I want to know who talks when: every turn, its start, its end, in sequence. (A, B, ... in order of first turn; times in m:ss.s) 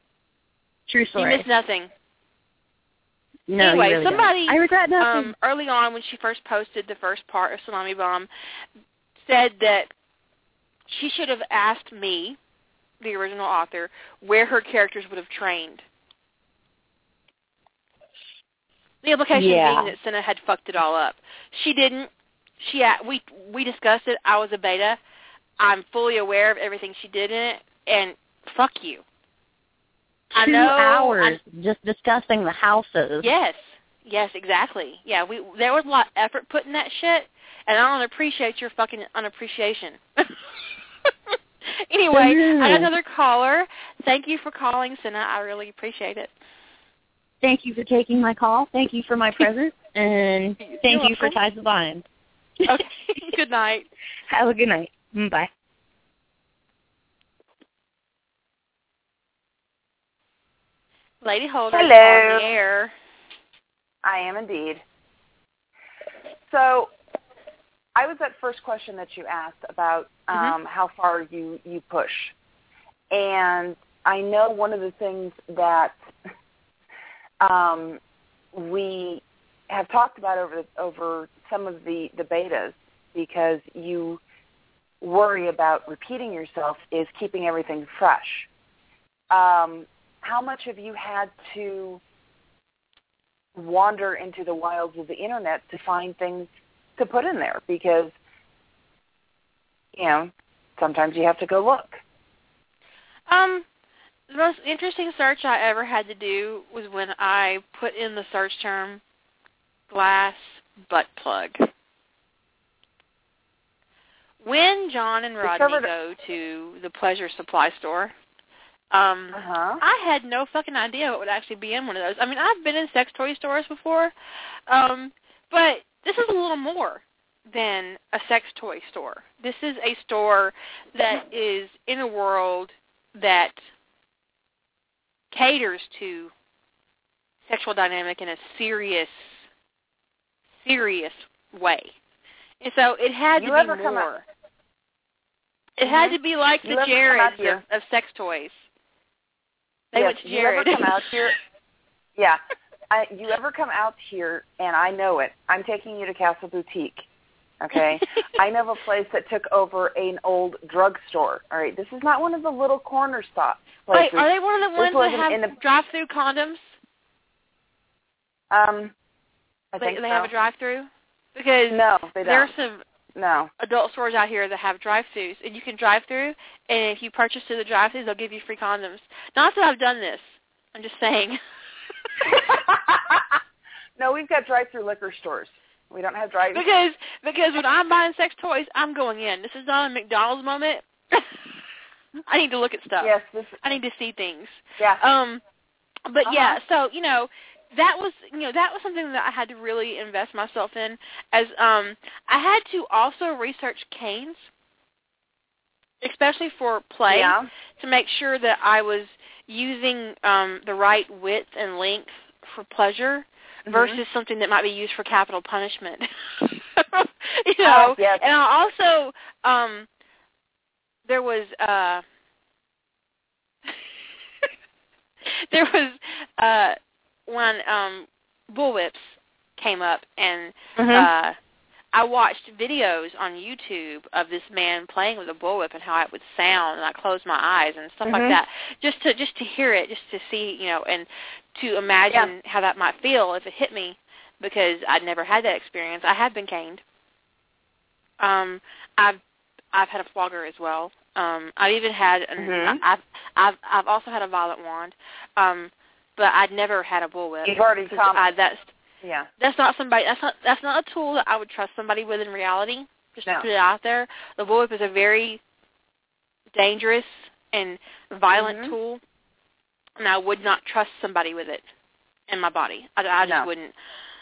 0:00.9-0:01.4 A
0:01.2-0:01.9 B
0:03.5-0:05.3 A
0:03.6-0:08.3 B
0:09.2-0:09.9 B
0:10.9-0:12.4 B
0:13.0-0:15.8 B
0:19.0-0:25.0 B
0:19.4-0:19.9 A
0:25.6-0:29.0 B
0:30.3-0:31.4 B
0:30.3-0:33.3 A
0:33.2-0:40.4 B
0:41.1-0:46.3 B
0:42.1-0:42.9 A
0:47.4-0:52.0 A
0:50.6-0:51.4 B
0:52.7-0:53.9 B
0:54.3-0:55.5 A
1:01.2-1:02.9 B
1:01.7-1:02.4 C
1:04.0-1:04.8 C
1:06.5-1:06.9 C
1:08.0-1:12.3 C
1:13.1-1:16.0 C
1:17.4-1:18.0 C
1:18.5-1:24.2 C
1:25.0-1:28.5 C
1:29.3-1:32.0 C
1:33.6-1:38.2 C
1:40.0-1:42.0 C
1:43.3-1:43.7 B
1:44.3-1:49.0 B
1:49.9-1:51.6 B
1:54.4-1:58.1 B
1:55.4-1:55.9 C
1:58.9-2:04.1 B
1:59.3-1:59.8 C
2:04.7-2:13.6 B
2:15.3-2:16.3 B
2:17.5-2:19.4 B
2:20.6-2:22.0 B
2:22.6-2:24.2 B
2:23.4-2:24.1 C
2:25.8-2:28.6 B
2:25.8-2:27.6 C
2:29.9-2:31.1 B
2:30.0-2:31.4 C
2:32.2-2:37.0 C
2:37.6-2:45.6 C
2:43.9-2:46.6 B
2:48.5-2:48.9 C
2:49.7-2:50.3 C
2:49.8-2:52.8 B
2:51.7-2:52.5 C
2:53.2-2:53.5 C
2:53.6-3:01.4 B
3:02.2-3:03.4 C
3:04.0-3:06.6 C
3:06.5-3:11.3 B
3:12.3-3:13.1 B
3:13.0-3:13.6 C
3:13.6-3:15.4 B
3:16.1-3:24.4 B
3:16.2-3:16.6 C
3:26.0-3:39.9 B
3:27.1-3:27.5 C
3:33.7-3:34.0 C
3:37.6-3:38.2 C
3:41.1-3:42.0 B
3:45.2-3:51.4 B
3:50.8-3:51.1 C
3:51.9-4:06.8 B
3:58.1-3:58.4 C
4:08.2-4:09.2 B
4:09.7-4:18.7 B
4:12.4-4:12.8 C
4:17.4-4:18.2 C
4:19.0-4:19.3 C
4:19.4-4:25.4 B
4:26.5-4:29.0 B
4:28.3-4:28.8 C
4:30.0-4:31.6 B
4:32.3-4:33.7 B